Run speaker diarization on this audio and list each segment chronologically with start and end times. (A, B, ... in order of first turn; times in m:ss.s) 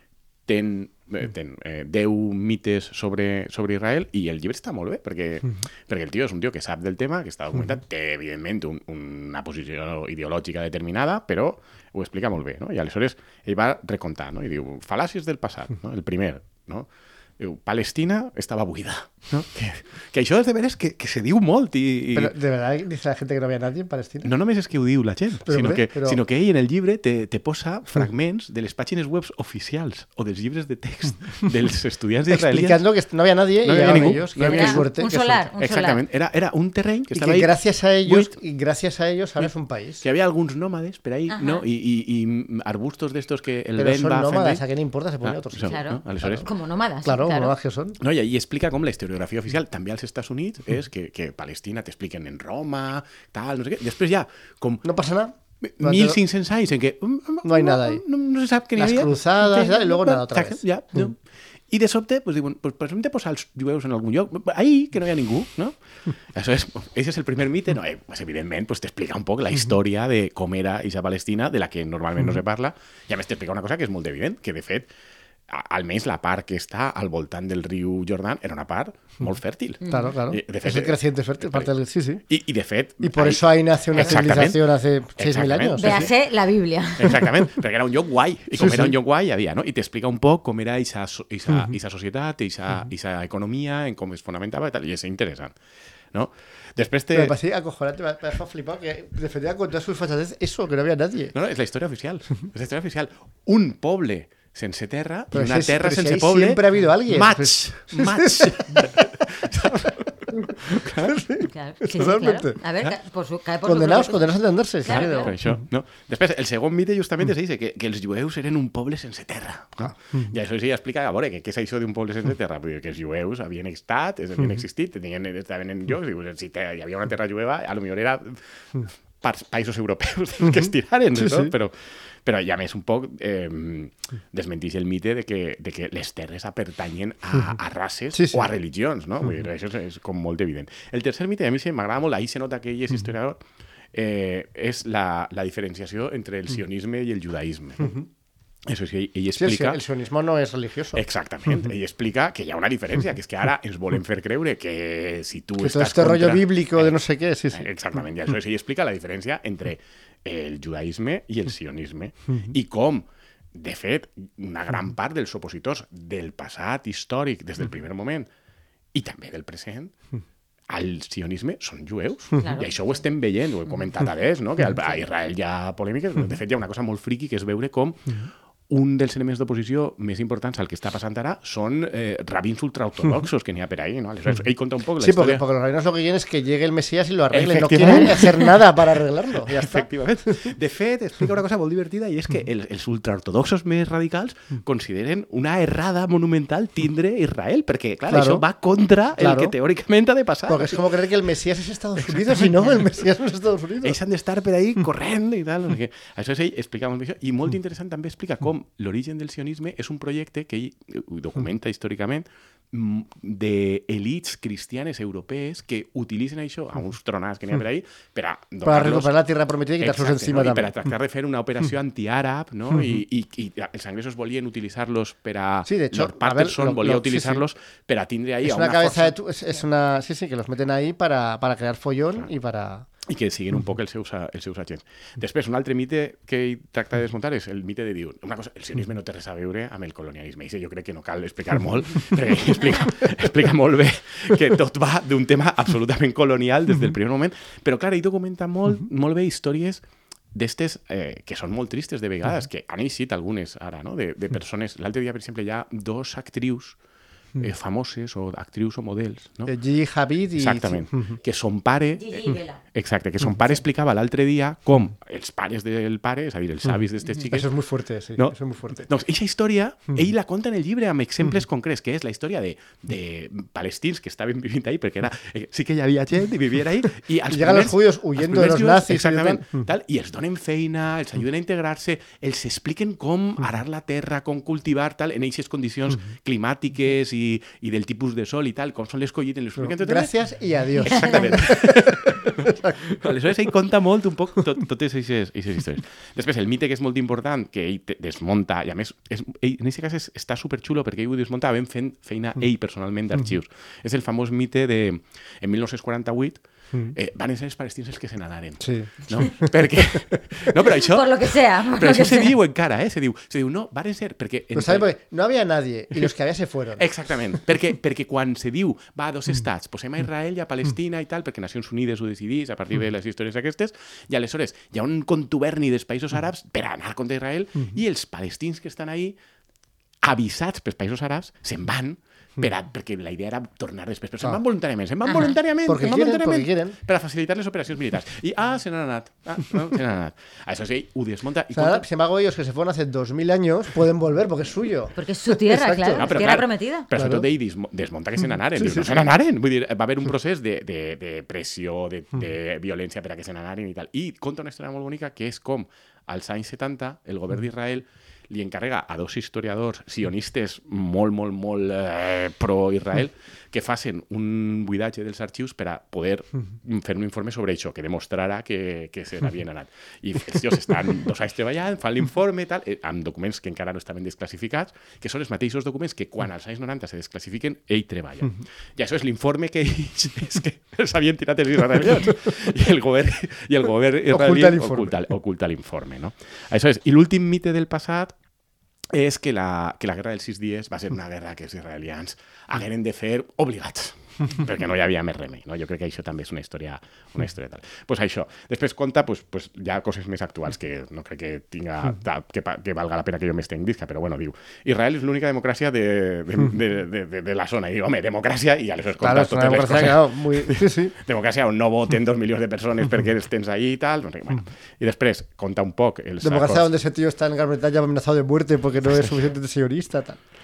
0:00.5-0:16.9 A
0:17.4-0:22.3 A
0:22.1-0:24.3 B
0:24.2-0:32.8 A
0:25.5-0:26.2 B
0:32.3-0:35.5 B
0:33.6-0:34.9 A
0:34.4-0:36.0 C
0:35.6-0:37.5 A
0:37.1-0:40.0 B
0:38.0-0:38.3 A
0:40.0-0:44.6 A
0:41.3-0:41.6 C
0:43.8-0:46.5 B
0:45.2-0:46.5 A
0:45.6-0:47.6 C
0:47.0-0:48.0 B
0:48.0-0:54.9 A
0:54.8-0:56.2 B
0:55.6-1:01.2 A
0:57.4-0:58.0 B
0:58.8-1:01.1 B
1:01.7-1:05.8 A
1:06.3-1:14.9 A
1:15.5-1:21.7 A
1:19.8-1:20.2 C
1:19.9-1:22.2 B
1:22.3-1:26.1 A
1:23.0-1:26.1 B
1:25.8-1:27.3 C
1:27.0-1:35.5 A
1:28.6-1:29.0 B
1:36.1-1:37.3 A
1:37.1-1:41.3 B
1:41.3-1:51.2 A
1:45.3-1:49.9 B
1:50.5-1:52.6 B
1:51.4-1:54.3 C
1:53.6-1:55.5 B
1:54.8-1:55.3 C
1:54.9-2:23.4 A
2:11.2-2:11.5 B
2:18.1-2:18.5 B
2:23.9-2:27.9 A
2:27.8-2:28.1 B
2:28.7-2:29.8 A
2:29.4-2:31.0 B
2:30.9-2:37.0 A
2:35.6-2:37.7 B
2:37.5-2:48.3 A
2:48.9-2:49.9 A
2:50.7-3:05.4 A
2:52.4-2:52.7 C
3:05.0-3:10.5 B
3:07.3-3:08.7 A
3:09.4-3:20.8 A
3:18.1-3:18.4 B
3:19.2-3:19.5 B
3:20.5-3:24.0 B
3:22.1-3:22.6 A
3:23.8-3:39.1 A
3:38.6-3:40.8 B
3:39.8-3:49.2 A
3:45.7-3:47.4 B
3:48.4-3:52.9 B
3:53.1-4:09.8 A
4:10.3-4:16.8 A
4:17.4-4:19.5 A
4:19.5-4:21.2 B
4:20.4-4:27.5 A
4:22.0-4:22.6 C
4:27.3-4:28.9 B
4:28.9-4:50.1 A
4:37.3-4:39.6 B
4:49.6-4:53.0 B
4:50.8-5:06.4 A
4:50.9-4:51.2 C
5:06.9-5:14.9 A
5:08.6-5:09.5 B
5:10.7-5:12.4 C
5:14.5-5:16.9 B
5:16.8-5:29.2 A
5:30.0-5:41.8 A
5:35.0-5:35.4 C
5:35.7-5:36.8 B
5:41.5-5:46.1 B
5:45.0-5:46.9 C
5:46.0-6:28.1 A
5:46.9-5:47.3 B
5:48.6-5:49.1 B
6:24.1-6:25.0 B
6:28.9-6:56.7 A
6:49.0-6:50.9 B
6:56.2-7:00.2 B